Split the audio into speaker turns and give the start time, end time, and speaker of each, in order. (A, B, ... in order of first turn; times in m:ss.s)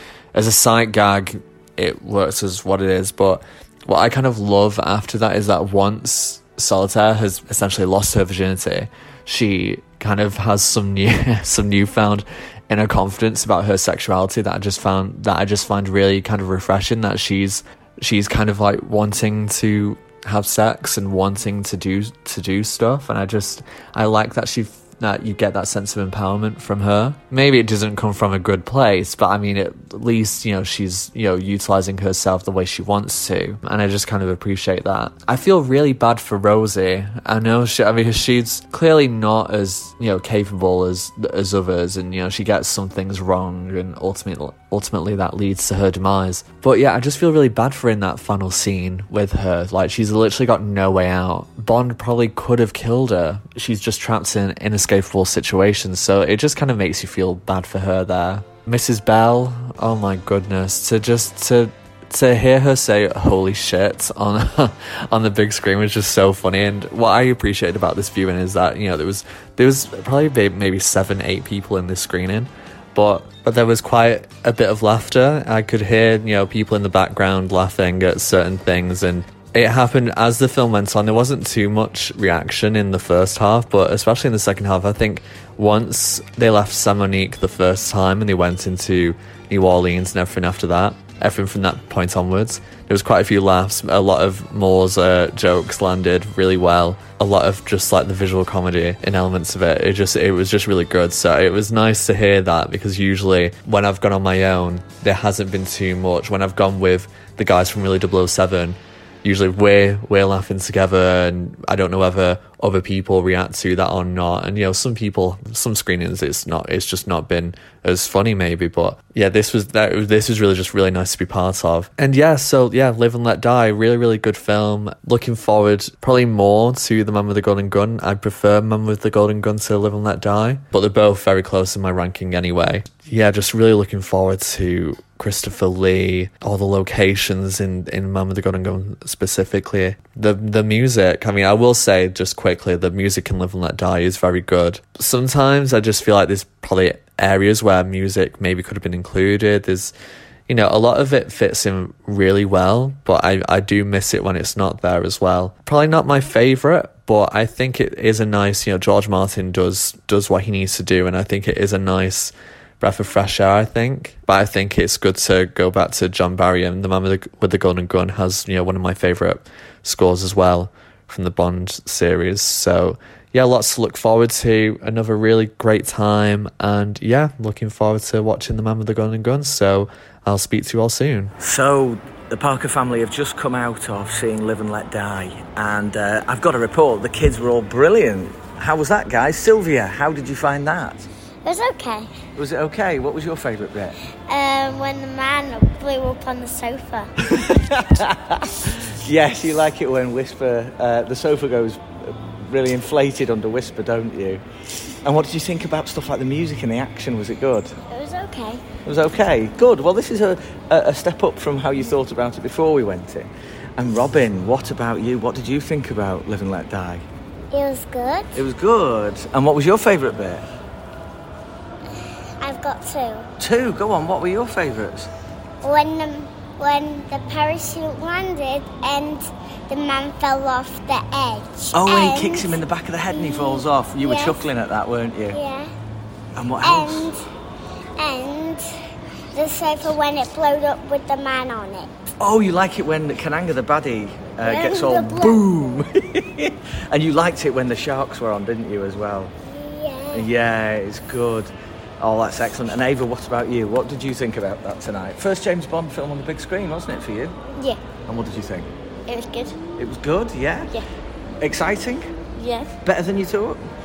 0:00.3-2:29.9 A
2:30.5-3:01.3 A
3:01.4-3:11.0 B
3:11.4-3:12.1 C
3:12.4-3:13.9 B
3:14.3-3:17.1 C
3:17.5-3:18.2 B
3:18.9-3:24.4 B
3:25.0-3:27.7 B
3:27.9-3:28.6 C
3:28.8-3:37.0 B
3:37.5-3:38.3 C
3:38.3-3:40.4 B
3:42.4-3:43.2 C
3:43.4-3:45.1 B
3:45.6-3:52.5 C
3:51.7-3:55.4 B
3:53.1-3:54.4 C
3:55.3-3:55.7 C
3:56.4-3:57.1 B
3:56.6-3:57.2 C
3:58.0-3:58.6 C
3:59.3-4:01.9 C
4:02.2-4:09.3 B
4:04.4-4:05.4 C
4:09.5-4:10.3 C
4:10.1-4:17.3 B
4:18.1-4:18.7 B
4:19.1-4:19.6 C
4:19.8-4:20.7 B
4:21.4-4:22.1 B
4:22.4-4:22.7 C
4:22.8-4:23.6 B